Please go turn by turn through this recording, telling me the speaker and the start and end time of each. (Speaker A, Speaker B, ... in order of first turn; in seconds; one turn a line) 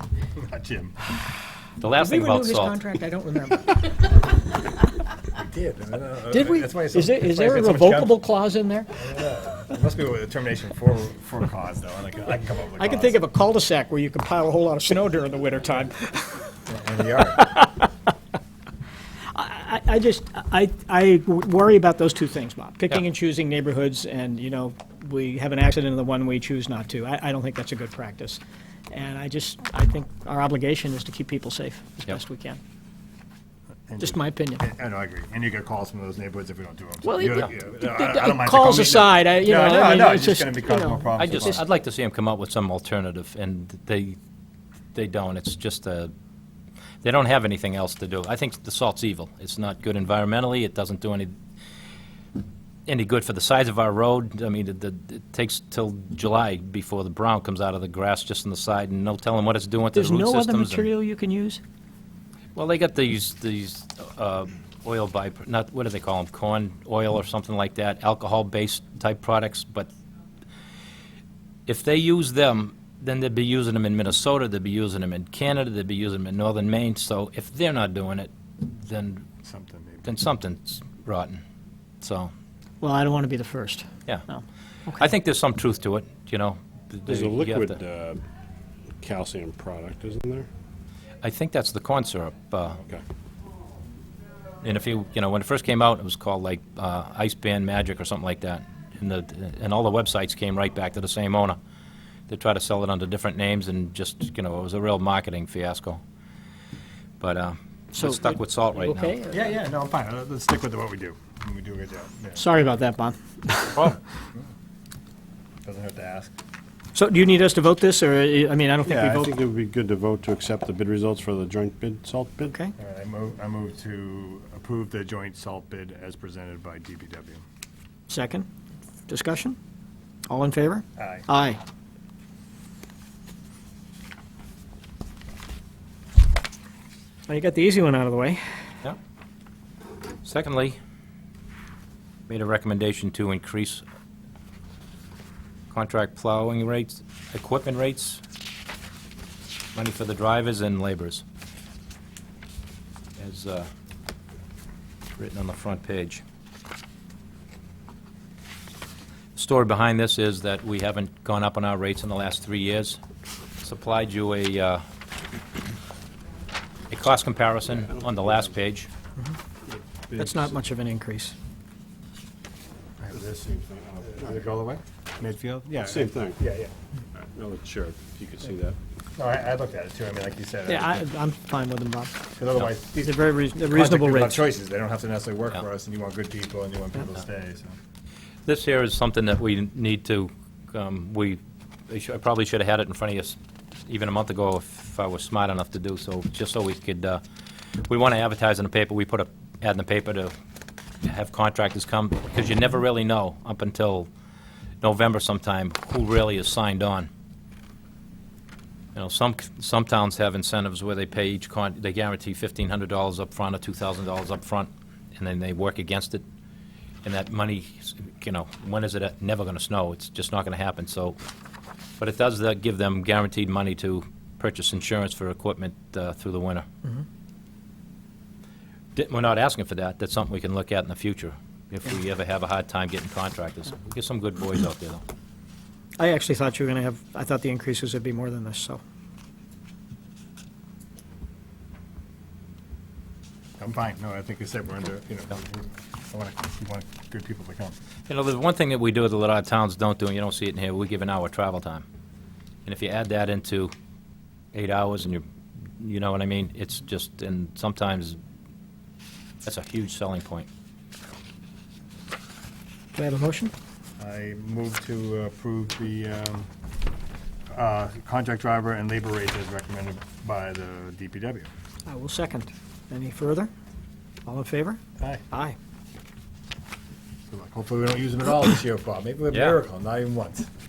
Speaker A: 0.3-0.9
Speaker B: 1.8-2.8
Speaker C: 2.0-4.1
Speaker A: 5.3-8.1
Speaker C: 6.3-8.9
Speaker A: 8.9-13.2
Speaker C: 12.8-16.5
Speaker A: 16.7-17.5
Speaker C: 17.4-17.9
Speaker C: 19.3-28.4
Speaker C: 28.9-32.6
Speaker A: 33.9-41.6
Speaker C: 34.0-34.6
Speaker C: 37.0-41.5
Speaker B: 41.1-44.2
Speaker B: 44.9-46.1
Speaker B: 47.0-51.4
Speaker B: 52.9-60.9
Speaker C: 59.9-61.6
Speaker B: 62.5-69.9
Speaker B: 71.7-79.2
Speaker A: 79.4-80.1
Speaker B: 80.0-81.4
Speaker B: 82.0-82.3
Speaker C: 82.8-85.0
Speaker B: 84.9-87.8
Speaker D: 87.0-88.2
Speaker D: 89.0-90.5
Speaker B: 91.2-92.8
Speaker B: 94.6-101.6
Speaker B: 102.3-106.0
Speaker B: 107.2-109.1
Speaker C: 107.9-109.5
Speaker A: 109.3-112.4
Speaker C: 112.4-113.9
Speaker A: 115.6-116.3
Speaker C: 116.9-119.3
Speaker D: 118.8-122.5
Speaker C: 122.5-122.7
Speaker A: 122.8-127.4
Speaker C: 128.1-128.5
Speaker C: 129.1-129.6
Speaker C: 130.3-131.6
Speaker A: 131.0-131.3
Speaker C: 137.3-138.4
Speaker B: 140.2-140.8
Speaker B: 142.3-143.8
Speaker B: 145.7-148.2
Speaker B: 149.7-151.2
Speaker B: 153.2-153.7
Speaker B: 155.2-156.2
Speaker B: 159.3-163.0
Speaker B: 163.6-164.8
Speaker B: 166.9-168.9
Speaker D: 167.9-168.3
Speaker D: 169.7-170.5
Speaker C: 170.1-171.3
Speaker A: 173.0-173.5
Speaker D: 173.1-174.3
Speaker A: 174.1-176.7
Speaker D: 175.8-176.4
Speaker D: 177.1-178.8
Speaker A: 179.2-181.1
Speaker C: 180.7-182.2
Speaker A: 182.3-187.7
Speaker C: 183.0-184.4
Speaker B: 188.4-197.2
Speaker B: 197.8-200.3
Speaker B: 201.0-204.1
Speaker B: 204.8-207.1
Speaker B: 208.9-216.2
Speaker B: 217.0-221.2
Speaker B: 222.0-226.7
Speaker B: 228.9-235.0
Speaker C: 236.0-238.8
Speaker A: 243.6-247.8
Speaker B: 248.1-251.8
Speaker B: 252.7-253.7
Speaker B: 254.5-255.2
Speaker B: 255.8-258.2
Speaker B: 259.4-260.5
Speaker C: 262.9-263.5
Speaker A: 264.0-266.5
Speaker A: 267.5-271.5
Speaker C: 271.9-273.5
Speaker C: 274.2-274.8
Speaker A: 275.0-275.2
Speaker C: 275.3-275.6
Speaker A: 277.3-280.5
Speaker B: 279.3-279.6